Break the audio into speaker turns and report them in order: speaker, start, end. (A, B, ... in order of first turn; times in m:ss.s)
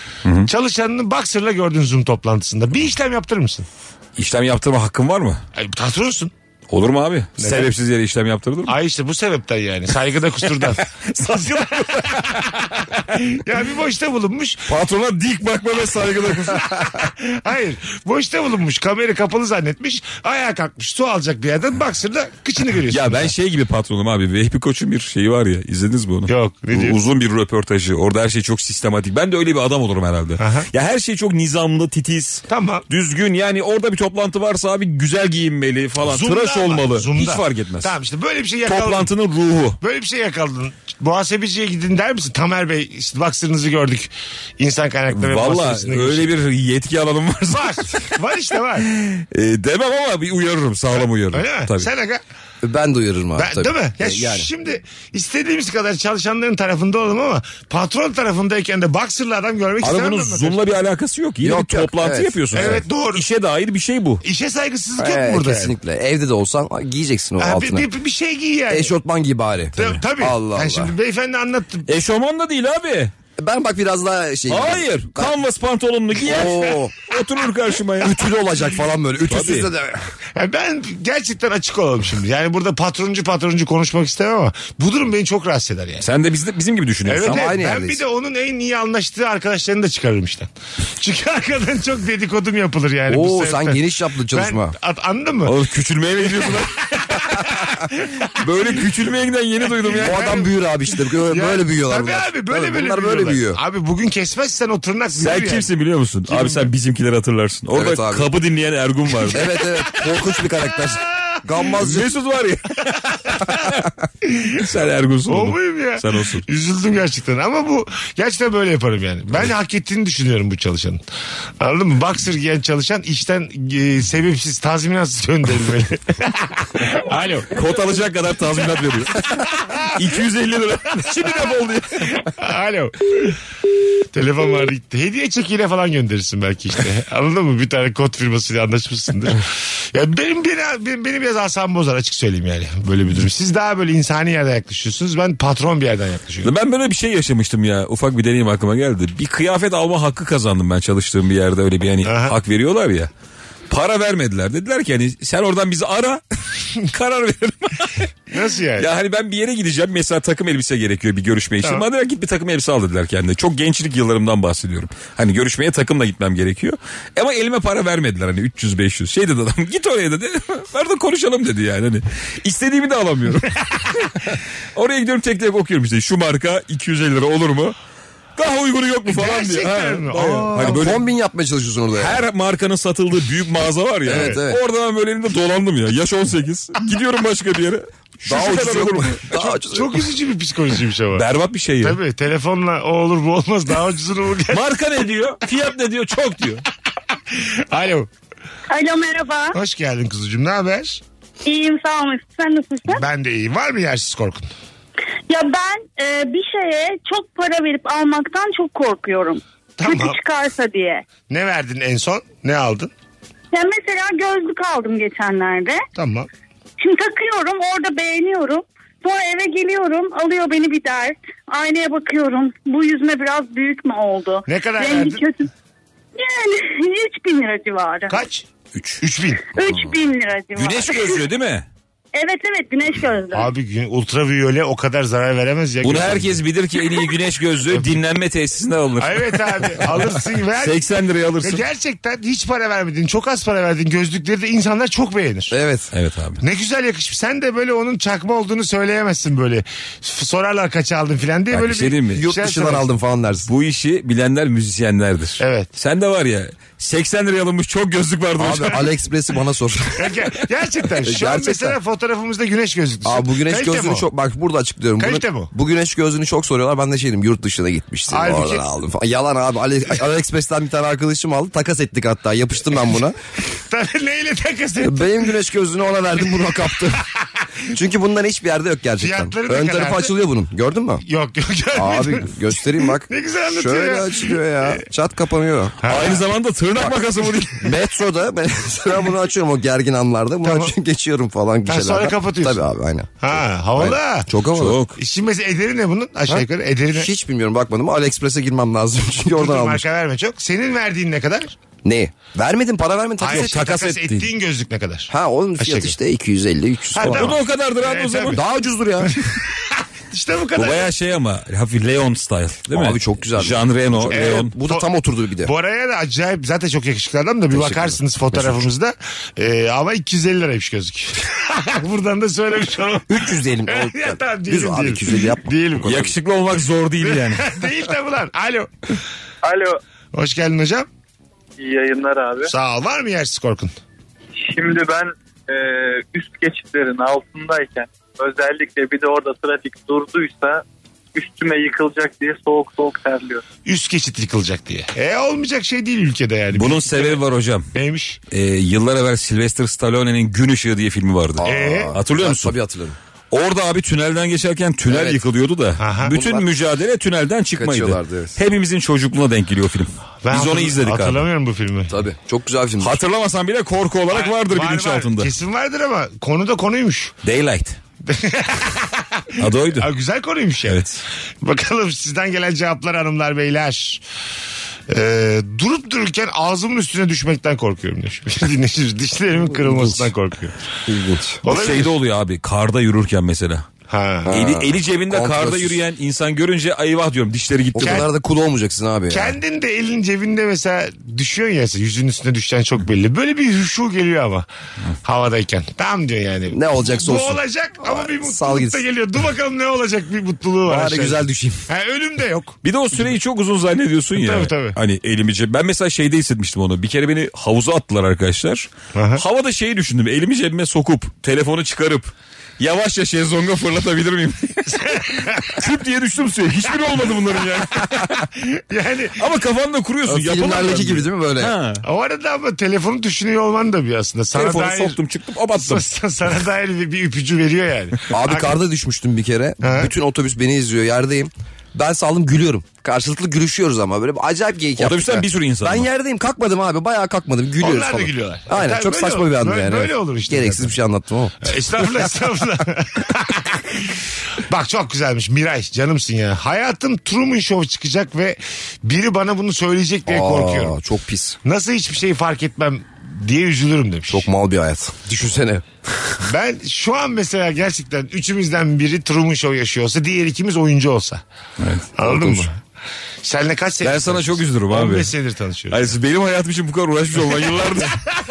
0:00.4-0:03.7 A
0:04.2-0:05.4 B
0:05.6-0:06.3 A
0:06.7-0:08.8 B
0:07.4-0:07.7 A
0:08.7-0:14.7 A
0:11.6-0:12.4 B
0:14.7-0:17.0 B
0:16.4-0:23.3 A
0:22.9-0:37.9 B
0:26.3-0:27.0 A
0:30.4-0:30.7 A
0:32.5-0:32.8 A
0:36.0-0:39.1 A
0:38.6-0:39.8 B
0:39.8-0:46.3 A
0:45.1-0:48.1 B
0:47.5-0:48.9 A
0:48.8-0:51.9 B
0:51.0-0:52.2 A
0:52.6-0:54.5 C
0:53.4-1:00.6 A
0:59.8-1:04.2 B
1:01.4-1:02.8 C
1:02.5-1:03.2 A
1:04.2-1:05.7 A
1:05.0-1:07.8 C
1:07.4-1:08.9 A
1:08.7-1:10.9 C
1:09.8-1:11.9 A
1:11.9-1:13.1 B
1:13.4-1:15.3 C
1:14.5-1:18.2 B
1:16.2-1:16.9 C
1:18.0-1:20.0 C
1:19.3-1:19.7 B
1:20.4-1:26.0 A
1:26.0-1:27.5 B
1:27.0-1:35.5 A
1:27.3-1:28.0 C
1:33.1-1:34.7 C
1:35.4-1:37.4 B
1:36.5-1:38.4 A
1:38.4-1:40.4 B
1:40.0-1:40.5 A
1:40.0-1:43.6 C
1:41.3-1:45.7 A
1:45.2-1:49.5 B
1:46.3-1:46.7 A
1:47.7-1:48.3 C
1:49.3-1:52.1 C
1:49.5-1:50.4 A
1:51.7-1:53.8 B
1:53.1-1:53.5 A
1:54.2-1:54.7 A
1:54.6-1:56.4 B
1:55.3-2:01.0 A
2:01.6-2:07.5 A
2:07.5-2:12.2 B
2:09.6-2:10.0 A
2:12.4-2:13.4 A
2:14.1-2:26.5 A
2:26.4-2:33.1 B
2:32.0-2:32.4 A
2:33.7-2:36.2 B
2:36.8-2:54.2 B
2:38.3-2:38.9 A
2:54.7-2:57.8 B
2:58.4-3:01.0 B
2:59.1-3:00.9 A
3:00.5-3:02.2 C
3:02.0-3:09.2 B
3:04.0-3:04.6 C
3:08.2-3:10.0 C
3:09.4-3:11.2 A
3:11.1-3:12.0 B
3:11.8-3:14.6 A
3:14.5-3:16.6 B
3:17.3-3:18.1 A
3:18.7-3:19.6 D
3:19.5-3:21.0 A
3:21.4-3:23.0 D
3:22.9-3:24.5 A
3:25.3-3:31.0 D
3:29.8-3:30.2 A
3:31.3-3:32.9 A
3:33.5-3:35.8 D
3:36.0-3:36.3 A
3:36.8-3:45.5 D
3:44.5-3:45.2 A
3:46.2-3:48.2 D
3:48.1-3:48.4 A
3:48.7-3:49.0 B
3:49.0-3:49.5 A
3:49.5-3:51.2 D
3:50.5-3:51.7 B
3:52.1-3:53.5 D
3:53.3-3:56.4 A
3:55.8-4:01.6 B
3:59.0-4:00.8 A
4:01.4-4:05.5 A
4:05.5-4:05.9 C
4:05.9-4:06.4 B
4:06.4-4:12.8 A
4:11.5-4:12.2 B
4:12.1-4:13.5 C
4:13.5-4:18.9 B
4:15.4-4:15.7 A
4:18.4-4:20.1 C
4:20.0-4:24.1 A
4:21.0-4:21.8 C
4:23.0-4:33.2 C
4:25.0-4:25.5 A
4:28.1-4:28.6 A
4:33.7-4:35.3 A
4:34.8-4:37.0 C
4:37.7-4:41.0 C
4:39.0-4:40.1 A
4:41.0-4:44.8 A
4:41.7-4:45.8 C
4:45.8-4:46.2 A
4:45.8-4:47.7 B
4:47.6-4:53.2 C
4:50.4-4:50.7 A
4:51.7-4:52.6 A
4:53.2-4:54.3 A
4:53.8-4:54.8 C
4:54.6-4:55.0 B
4:55.0-4:57.1 A
4:56.3-4:59.8 C
4:59.2-5:01.6 A
5:01.8-5:03.7 C
5:03.2-5:06.0 A
5:03.2-5:04.3 B
5:05.1-5:07.3 C
5:07.0-5:08.4 A
5:07.1-5:08.4 B
5:08.3-5:09.2 C
5:09.0-5:10.9 A
5:10.6-5:14.5 B
5:12.7-5:15.5 C
5:14.1-5:14.9 A
5:15.4-5:26.1 A
5:17.5-5:18.6 C
5:23.1-5:26.0 C
5:25.8-5:27.5 B
5:27.0-5:28.7 A
5:29.4-5:29.8 E
5:30.1-5:30.9 A
5:31.6-5:32.5 E
5:32.4-5:33.7 A
5:34.4-5:43.4 E
5:43.6-5:47.2 A
5:46.5-5:47.7 B
5:47.7-5:48.2 A
5:48.3-5:52.6 B
5:51.4-5:53.0 C
5:51.4-5:51.9 A
5:53.3-6:01.2 B
5:54.9-5:55.2 C
5:55.8-5:56.2 A
5:56.1-5:56.4 C
5:57.6-5:58.4 C
6:00.2-6:01.9 A
6:01.9-6:03.0 C
6:02.8-6:05.3 B
6:04.1-6:07.1 A
6:07.2-6:07.8 B
6:08.0-6:10.9 A
6:09.4-6:09.9 B
6:10.7-6:11.0 B
6:11.4-6:14.0 A
6:14.9-6:20.6 A
6:20.9-6:21.4 C
6:21.4-6:21.9 A
6:21.4-6:23.6 B
6:23.9-6:24.3 A
6:24.3-6:25.8 C
6:24.3-6:28.1 B
6:27.7-6:29.4 C
6:27.8-6:28.1 A
6:29.1-6:34.4 A
6:35.0-6:42.6 A
6:36.5-6:38.8 C
6:40.7-6:41.6 C
6:42.6-6:58.3 B
6:44.2-6:44.8 A
6:48.9-6:49.2 A
6:54.7-6:55.6 A
6:58.0-6:59.2 A
6:59.2-7:01.8 B
7:00.1-7:01.5 C
7:01.8-7:05.0 A
7:04.3-7:05.8 B
7:05.6-7:08.6 A
7:08.1-7:21.8 C
7:09.6-7:09.9 A
7:14.8-7:15.9 B
7:17.6-7:20.8 A
7:21.4-7:30.8 A
7:30.1-7:31.4 C
7:31.4-7:34.3 A
7:34.1-7:35.6 C
7:36.2-7:41.2 A
7:41.6-7:41.8 B
7:42.0-7:42.5 A
7:42.0-7:42.5 C
7:43.2-7:45.9 A
7:43.8-7:45.1 B
7:45.7-7:48.0 B